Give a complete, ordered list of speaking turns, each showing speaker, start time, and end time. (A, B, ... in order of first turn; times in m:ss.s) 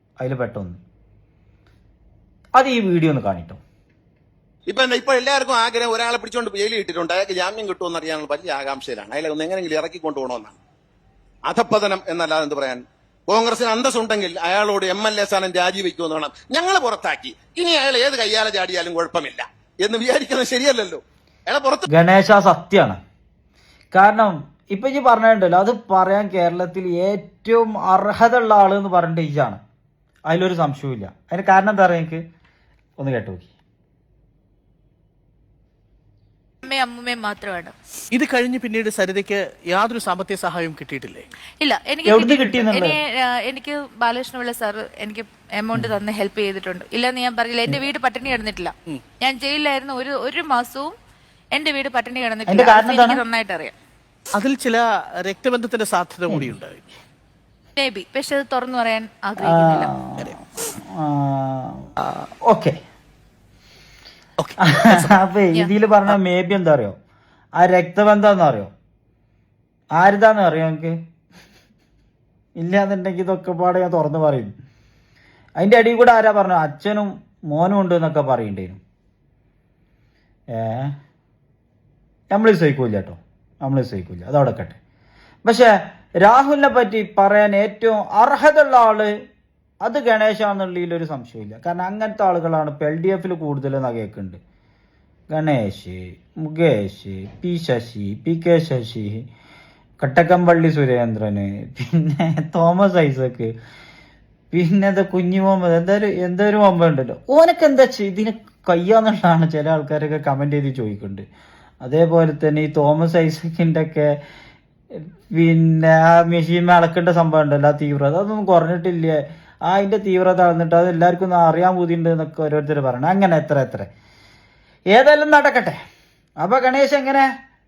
0:00.2-0:00.8 A
0:02.6-0:03.6 A
0:04.7-0:10.6 B
0:11.4-0:21.9 B
0:21.9-0:23.0 A
0:23.9-0:29.6 A
0:30.3-0:32.2 A
0:33.0-0:33.5 A
0:36.6-0:37.7 C
0:38.1-0:41.3 D
0:41.6-0:50.9 C
0:42.0-0:43.0 A
0:51.5-0:53.8 C
0:52.5-0:53.2 A
0:54.3-0:56.9 D
0:57.8-0:59.9 C
0:59.4-1:02.8 A
1:04.4-1:05.2 D
1:04.6-1:07.0 A
1:07.6-1:08.7 A
1:09.9-1:11.0 A
1:12.6-1:14.5 A
1:15.6-1:18.8 A
1:20.5-1:20.9 A
1:22.3-1:24.8 A
1:25.4-1:29.1 A
1:29.8-1:34.4 A
1:35.3-1:39.2 A
1:40.0-1:43.5 A
1:44.5-1:51.2 A
1:51.8-1:54.2 A
1:55.3-2:03.9 A
2:04.9-2:05.8 A
2:06.4-2:07.3 A